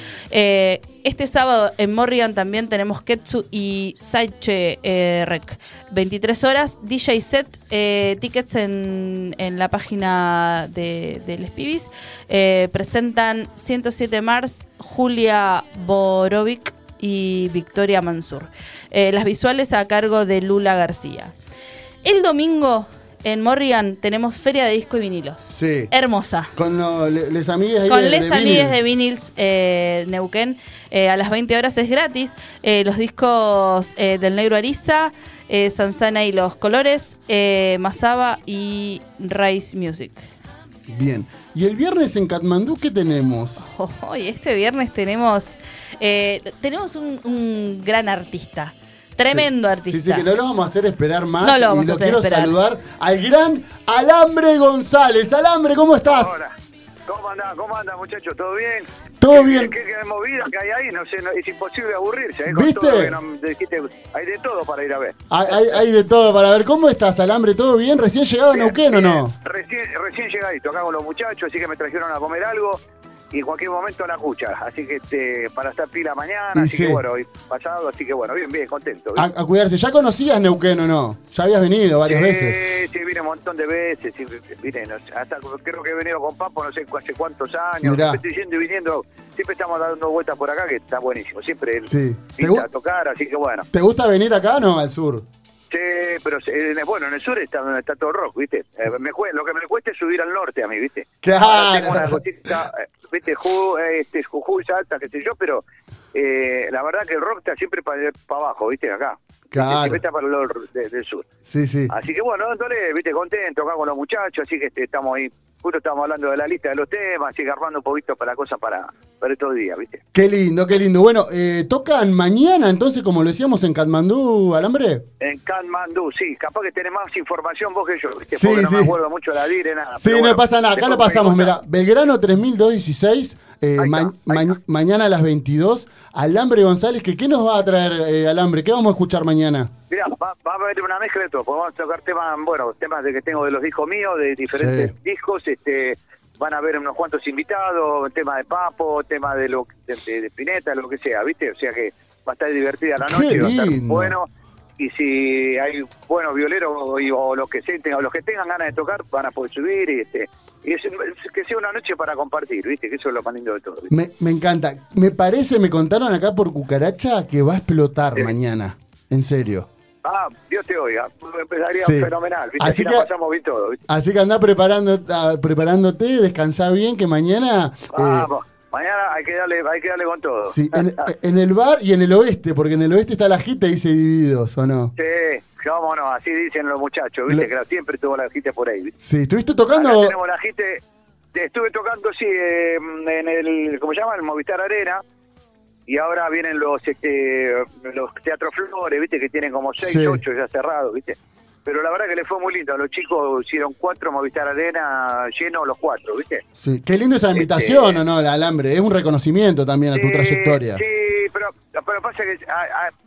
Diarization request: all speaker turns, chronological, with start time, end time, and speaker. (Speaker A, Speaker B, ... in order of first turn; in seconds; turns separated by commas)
Speaker A: 0.3-21.4, Speaker A: 22.0-26.5, Speaker B: 25.5-25.9, Speaker B: 26.5-28.8, Speaker A: 27.9-40.2, Speaker B: 40.9-43.6, Speaker A: 43.6-50.3, Speaker B: 49.3-56.4, Speaker A: 51.4-52.5, Speaker C: 56.0-56.5, Speaker C: 57.1-65.8, Speaker B: 59.2-59.7, Speaker B: 62.5-63.1, Speaker B: 65.3-69.3, Speaker C: 68.5-72.8, Speaker C: 73.3-79.2, Speaker B: 76.5-77.0, Speaker B: 79.2-82.7, Speaker C: 82.1-93.7, Speaker B: 87.8-88.2, Speaker B: 91.9-92.6, Speaker B: 93.7-95.2, Speaker C: 95.7-111.2, Speaker B: 101.2-102.6, Speaker B: 109.5-110.0, Speaker B: 111.5-112.0, Speaker C: 111.9-120.0, Speaker B: 120.1-125.0, Speaker C: 125.2-131.6, Speaker B: 128.3-128.9, Speaker B: 130.0-139.7, Speaker C: 133.8-134.5, Speaker C: 139.9-154.3, Speaker B: 144.5-144.9, Speaker B: 153.0-154.2, Speaker C: 154.8-163.9, Speaker B: 163.9-169.7, Speaker C: 170.0-173.8, Speaker B: 171.8-173.1, Speaker B: 173.9-178.3, Speaker C: 177.9-181.1, Speaker B: 180.5-184.9, Speaker C: 185.0-188.9, Speaker B: 189.0-190.1, Speaker C: 189.7-190.8, Speaker C: 191.3-195.0, Speaker C: 195.9-206.4, Speaker B: 199.8-200.2, Speaker B: 206.6-210.8, Speaker C: 207.3-208.0, Speaker C: 209.9-212.9